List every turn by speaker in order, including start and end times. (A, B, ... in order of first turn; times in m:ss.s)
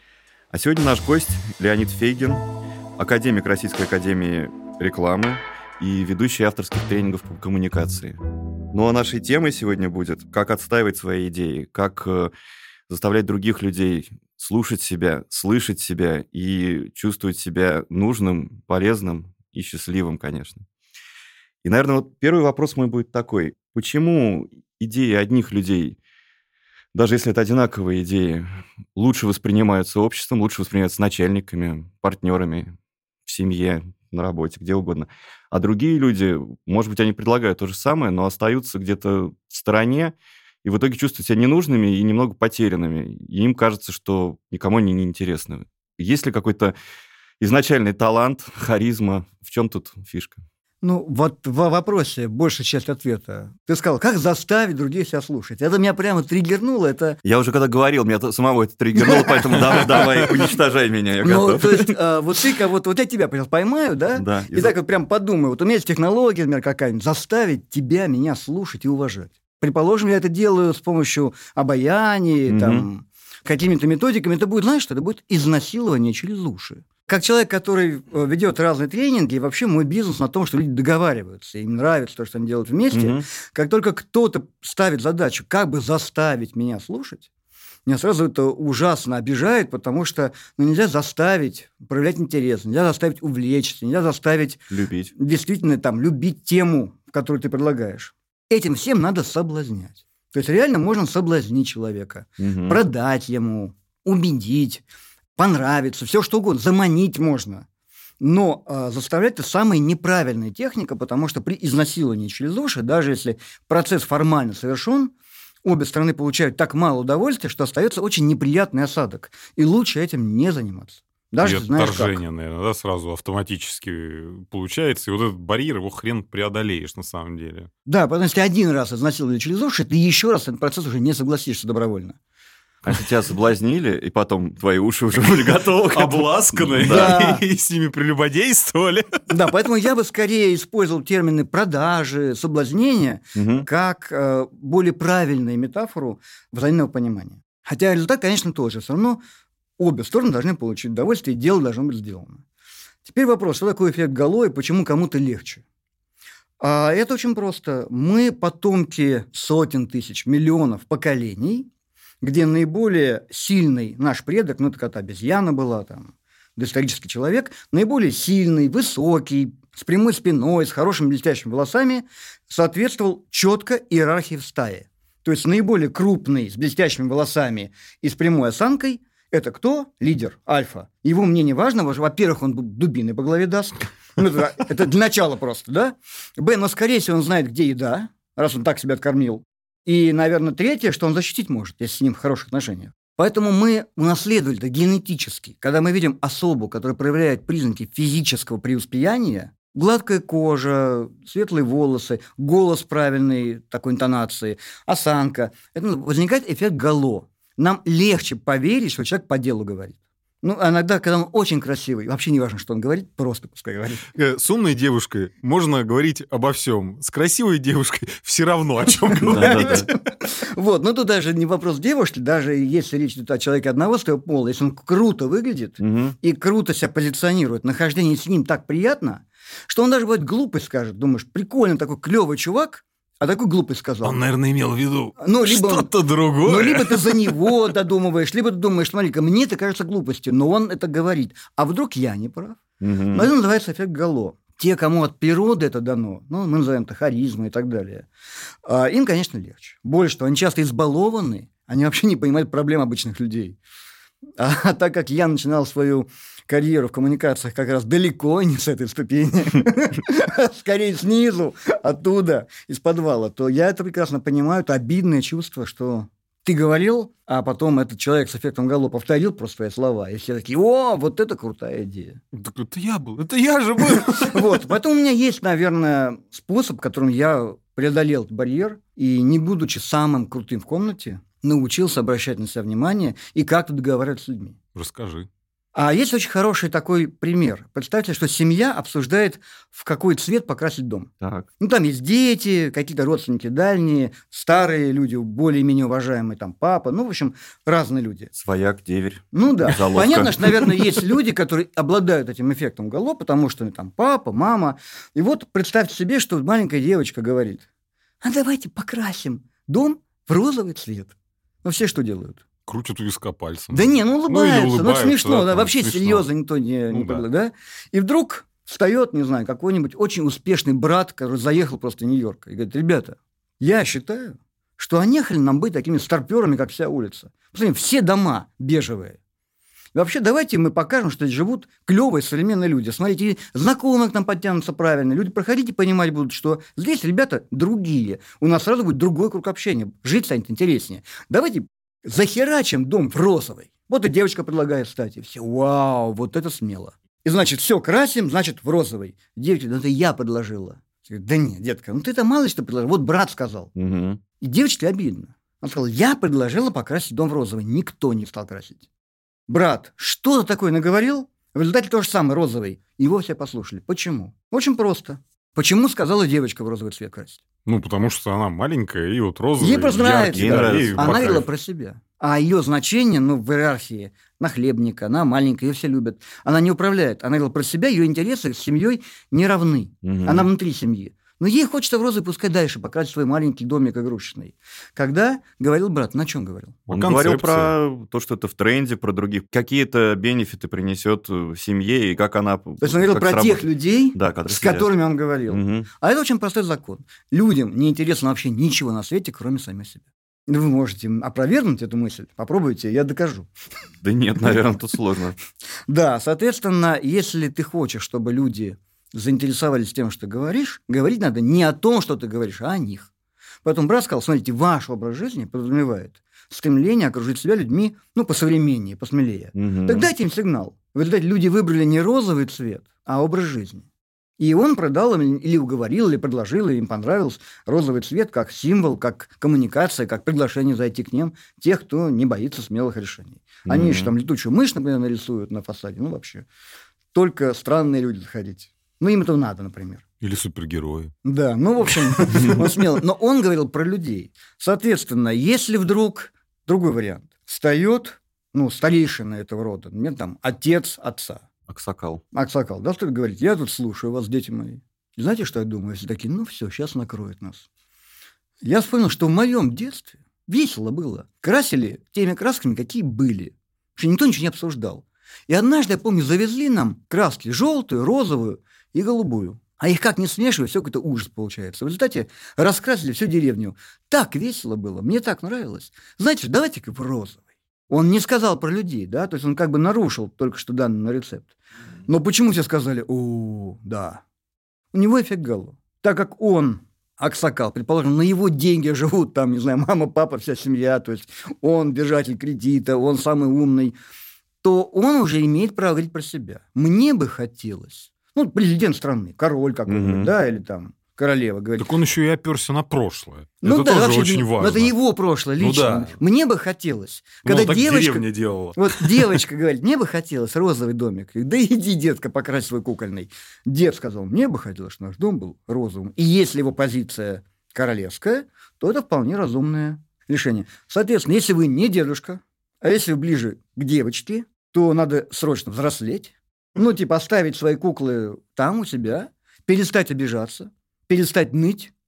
0:00.5-0:02.4 A
0:03.0-0:08.2 A
0:08.7-0:12.3 A
0:12.9-0:20.6 A
0:21.6-0:26.0 A
0:26.9-0:32.7 A
0:33.3-0:46.8 A
0:47.4-0:50.4 A
0:50.8-0:57.2 B
0:57.2-1:02.0 A
0:59.0-1:00.0 B
1:01.2-1:27.3 B
1:04.2-1:04.8 A
1:12.5-1:12.9 A
1:22.9-1:23.3 A
1:27.9-1:44.8 B
1:34.7-1:35.1 A
1:42.4-1:42.8 A
1:45.4-1:47.7 B
1:48.2-1:55.1 B
1:55.6-2:02.2 B
2:01.4-2:07.7 C
2:07.9-2:12.2 B
2:12.8-2:17.2 A
2:15.9-2:19.2 C
2:16.9-2:17.4 B
2:19.3-2:29.2 B
2:23.4-2:23.7 A
2:29.8-2:32.4 B
2:33.0-2:35.6 B
2:36.6-2:41.7 B
2:42.2-3:34.0 B
3:34.2-3:39.8 C
3:39.2-3:54.2 B
3:39.3-3:39.9 A
3:45.8-3:46.2 A
3:54.0-3:57.6 C
3:55.2-3:55.9 B
3:56.4-4:08.1 B
4:02.8-4:03.3 A
4:08.6-4:13.6 B
4:14.4-4:32.2 B
4:32.3-4:34.6 C
4:33.8-4:44.6 B
4:44.8-4:45.3 C
4:45.8-4:58.3 B
4:51.2-4:51.5 A
4:58.4-5:00.6 A
4:59.3-5:07.6 B
5:08.2-5:12.4 B
5:12.7-5:16.3 C
5:13.7-5:29.2 B
5:16.9-5:17.2 C
5:30.0-5:53.7 B
5:53.8-5:54.2 A
5:54.4-5:58.8 B
5:59.5-6:07.4 B
6:07.7-6:11.4 C
6:09.6-6:26.8 B
6:10.3-6:11.4 A
6:20.0-6:20.5 A
6:26.9-6:27.7 C
6:26.9-6:34.9 A
6:32.8-6:43.5 B
6:35.5-6:35.9 A
6:44.0-6:45.4 A
6:45.9-6:53.1 B
6:53.6-7:03.8 B
6:59.6-7:00.1 A
7:04.4-7:16.5 B
7:13.7-7:14.1 A
7:17.1-7:20.0 B
7:20.2-7:21.1 C
7:21.2-7:31.4 B
7:22.4-7:22.6 A
7:31.7-7:32.2 A
7:32.3-7:37.6 B
7:38.6-8:01.5 B
8:02.1-8:04.2 B
8:04.9-8:14.0 B
8:14.6-8:21.9 B
8:19.9-8:20.3 A
8:21.8-8:24.9 C
8:23.6-8:28.2 B
8:25.6-8:26.1 C
8:27.4-8:29.4 C
8:28.8-8:51.9 B